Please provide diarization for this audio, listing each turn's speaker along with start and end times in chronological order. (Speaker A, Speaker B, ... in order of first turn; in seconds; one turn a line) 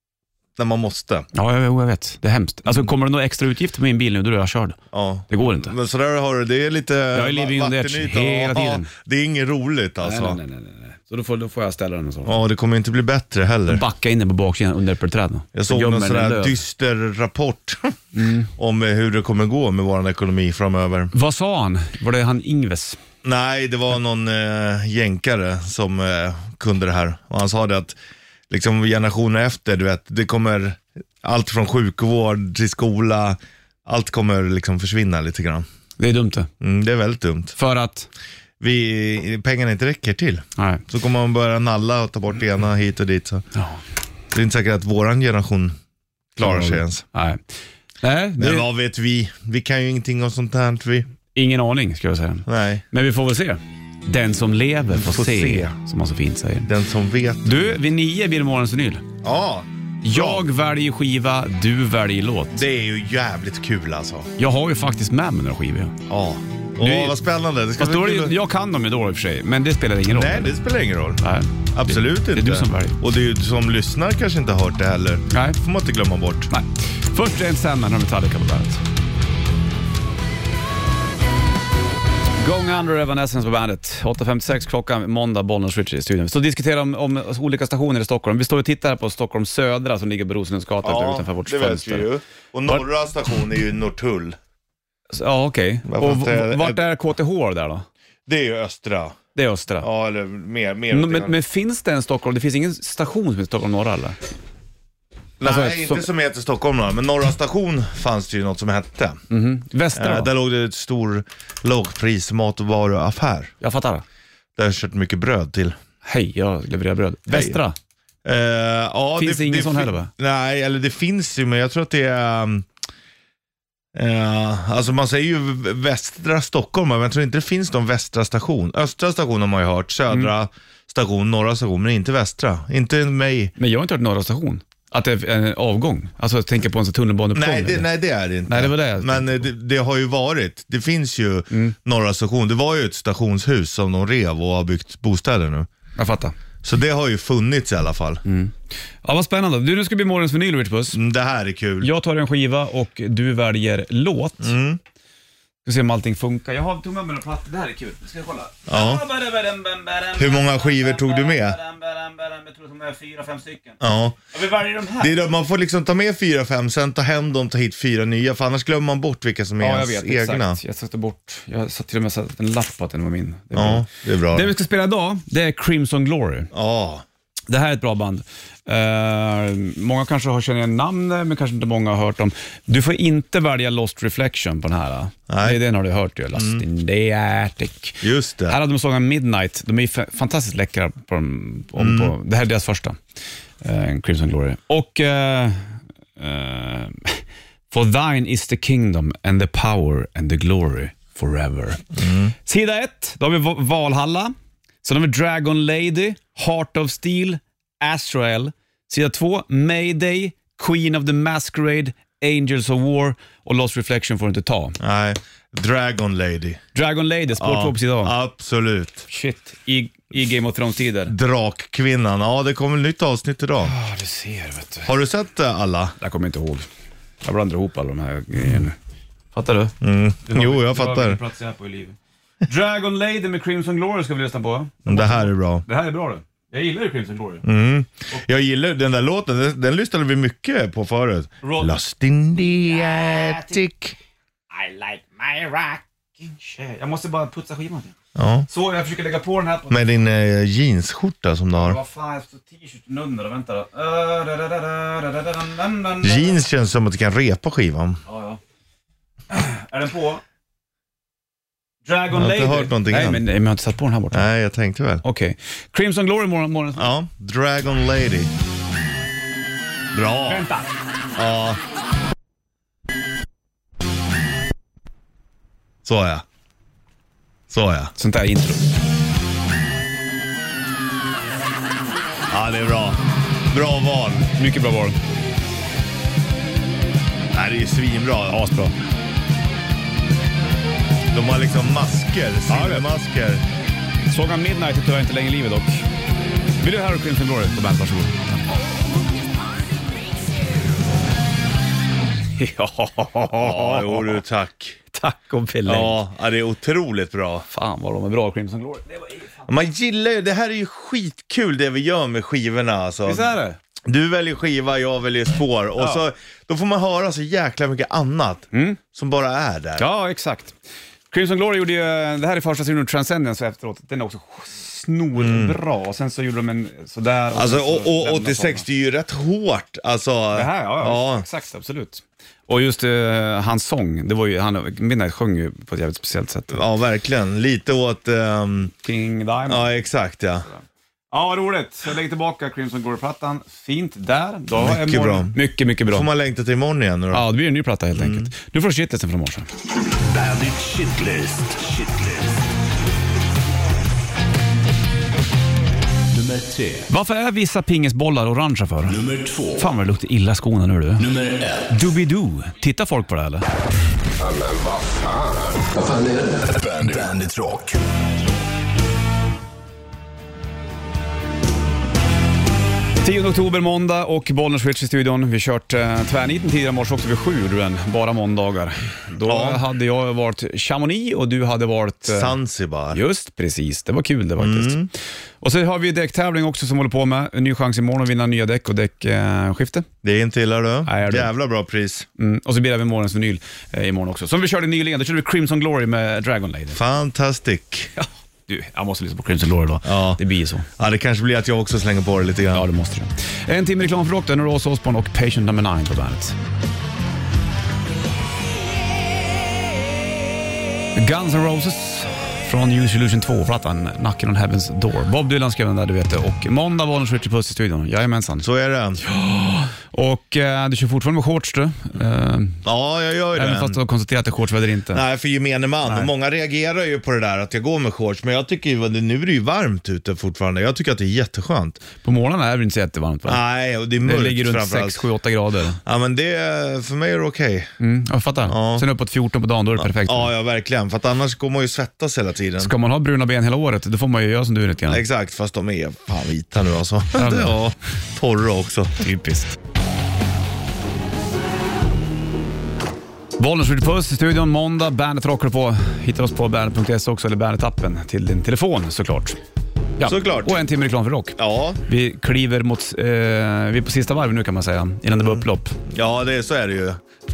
Speaker A: 0.6-1.3
Speaker B: 1.3-4.8
Speaker A: 4.9-10.4
Speaker B: 5.3-5.8
Speaker B: 7.1-8.9
Speaker B: 10.0-12.4
Speaker A: 12.2-13.8
Speaker B: 13.7-16.6
Speaker A: 15.6-21.1
Speaker B: 18.1-18.5
Speaker B: 21.1-23.0
Speaker A: 23.2-28.0
Speaker A: 28.5-35.7
Speaker B: 36.0-36.5
Speaker A: 36.6-37.5
Speaker B: 37.6-38.1
Speaker A: 38.6-43.5
Speaker B: 40.6-40.8
Speaker A: 44.3-45.8
Speaker A: 46.4-47.0
Speaker B: 46.4-47.4
Speaker B: 48.0-48.7
Speaker A: 48.4-51.1
Speaker B: 51.4-56.7
Speaker A: 52.5-52.8
Speaker A: 54.9-55.7
Speaker A: 56.6-57.7
Speaker B: 57.5-59.0
Speaker A: 59.2-60.4
Speaker B: 60.0-62.6
Speaker A: 62.5-64.3
Speaker B: 64.4-66.0
Speaker A: 66.1-68.4
Speaker B: 66.8-67.2
Speaker B: 67.8-70.5
Speaker A: 70.1-71.2
Speaker B: 71.2-73.0
Speaker A: 71.7-76.5
Speaker B: 75.3-75.6
Speaker B: 76.5-78.8
Speaker B: 82.4-92.1
Speaker A: 90.8-94.4
Speaker B: 95.1-97.9
Speaker A: 95.9-96.8
Speaker A: 98.3-99.2
Speaker B: 99.4-99.9
Speaker A: 99.8-101.4
Speaker B: 100.9-104.2
Speaker A: 105.4-109.2
Speaker B: 105.4-106.1
Speaker B: 109.3-110.3
Speaker A: 110.0-113.5
Speaker B: 113.6-114.0
Speaker A: 114.6-115.8
Speaker B: 116.0-117.8
Speaker A: 117.3-117.6
Speaker A: 118.2-122.7
Speaker B: 119.2-120.1
Speaker A: 124.0-133.5
Speaker B: 133.6-137.9
Speaker A: 137.3-145.7
Speaker B: 138.5-139.5
Speaker B: 146.0-146.3
Speaker A: 146.6-148.2
Speaker B: 148.2-151.0
Speaker A: 150.9-151.9
Speaker B: 151.8-154.5
Speaker A: 154.4-154.8
Speaker B: 155.7-163.8
Speaker A: 158.7-159.1
Speaker A: 160.2-161.6
Speaker A: 163.8-164.2
Speaker B: 164.3-165.1
Speaker A: 165.0-170.6
Speaker B: 169.6-176.5
Speaker A: 173.5-174.5
Speaker A: 176.5-177.1
Speaker B: 177.5-193.0
Speaker A: 185.3-185.6
Speaker A: 186.3-186.6
Speaker A: 188.0-188.6
Speaker A: 191.8-192.1
Speaker B: 193.6-201.9
Speaker A: 202.0-202.3
Speaker B: 202.4-214.8
Speaker A: 214.8-216.6
Speaker B: 216.7-218.2
Speaker A: 217.4-219.1
Speaker B: 219.1-221.1
Speaker A: 221.1-223.7
Speaker B: 223.6-224.9
Speaker A: 224.8-225.9
Speaker B: 226.0-226.7
Speaker B: 227.2-228.8
Speaker B: 229.3-237.4
Speaker A: 229.8-231.2
Speaker A: 234.9-235.6
Speaker A: 237.4-244.0
Speaker B: 241.4-241.7
Speaker B: 242.6-243.6
Speaker B: 244.5-247.9
Speaker A: 248.2-248.5
Speaker B: 248.5-249.8
Speaker A: 249.7-251.8
Speaker B: 251.5-256.4
Speaker A: 256.0-258.0
Speaker B: 258.1-258.4
Speaker B: 259.3-260.2
Speaker B: 261.9-264.3
Speaker A: 262.1-263.2
Speaker A: 264.1-265.0
Speaker B: 265.0-266.9
Speaker A: 266.8-268.3
Speaker A: 269.9-270.4
Speaker B: 270.2-270.7
Speaker A: 271.2-271.6
Speaker A: 275.9-276.2
Speaker A: 277.5-277.9
Speaker B: 278.0-278.7
Speaker A: 282.3-284.3
Speaker B: 284.3-285.0
Speaker A: 287.3-288.4
Speaker B: 288.3-288.7
Speaker A: 291.1-293.4
Speaker B: 292.5-292.9
Speaker B: 294.1-295.9
Speaker B: 296.6-298.4
Speaker B: 302.4-304.2
Speaker A: 303.3-304.8
Speaker B: 304.9-306.0
Speaker A: 305.7-307.4
Speaker B: 307.5-309.4
Speaker A: 309.5-313.3
Speaker B: 313.1-313.6
Speaker A: 313.9-319.9
Speaker B: 318.5-318.8
Speaker B: 319.8-320.6
Speaker B: 321.1-328.7
Speaker A: 325.2-325.6
Speaker A: 327.3-331.3
Speaker B: 330.4-336.6
Speaker A: 336.5-338.7
Speaker B: 338.8-339.7
Speaker A: 339.5-340.5
Speaker B: 340.5-346.1
Speaker A: 344.5-347.3
Speaker B: 347.1-349.5
Speaker A: 347.9-348.3
Speaker C: 349.9-352.5
Speaker C: 356.1-356.9
Speaker B: 356.9-359.0
Speaker C: 358.9-359.7
Speaker B: 359.6-361.1
Speaker C: 361.0-361.8
Speaker B: 361.7-363.5
Speaker C: 364.2-367.8
Speaker B: 373.0-382.4
Speaker A: 379.3-379.6
Speaker A: 382.1-383.0
Speaker B: 382.9-384.8
Speaker A: 384.4-384.9
Speaker B: 385.4-389.9
Speaker A: 390.0-392.1
Speaker B: 390.9-391.3
Speaker B: 392.2-396.8
Speaker A: 396.7-397.9
Speaker B: 398.0-400.7
Speaker A: 399.9-400.2
Speaker A: 400.8-402.7
Speaker B: 402.5-406.4
Speaker B: 411.0-418.5
Speaker A: 418.4-419.0
Speaker B: 419.0-422.6
Speaker A: 422.6-423.8
Speaker B: 423.4-425.0
Speaker A: 424.9-431.8
Speaker B: 425.9-426.1
Speaker B: 432.0-433.4
Speaker A: 433.3-435.1
Speaker B: 434.0-435.8
Speaker A: 435.8-437.7
Speaker B: 437.8-440.3
Speaker A: 438.5-438.9
Speaker A: 439.8-442.7
Speaker B: 442.6-445.0
Speaker A: 444.9-449.0
Speaker B: 447.1-447.6
Speaker B: 449.0-449.6
Speaker B: 453.4-459.4
Speaker B: 460.0-465.8
Speaker A: 460.0-460.6
Speaker A: 461.4-461.8
Speaker A: 465.2-467.0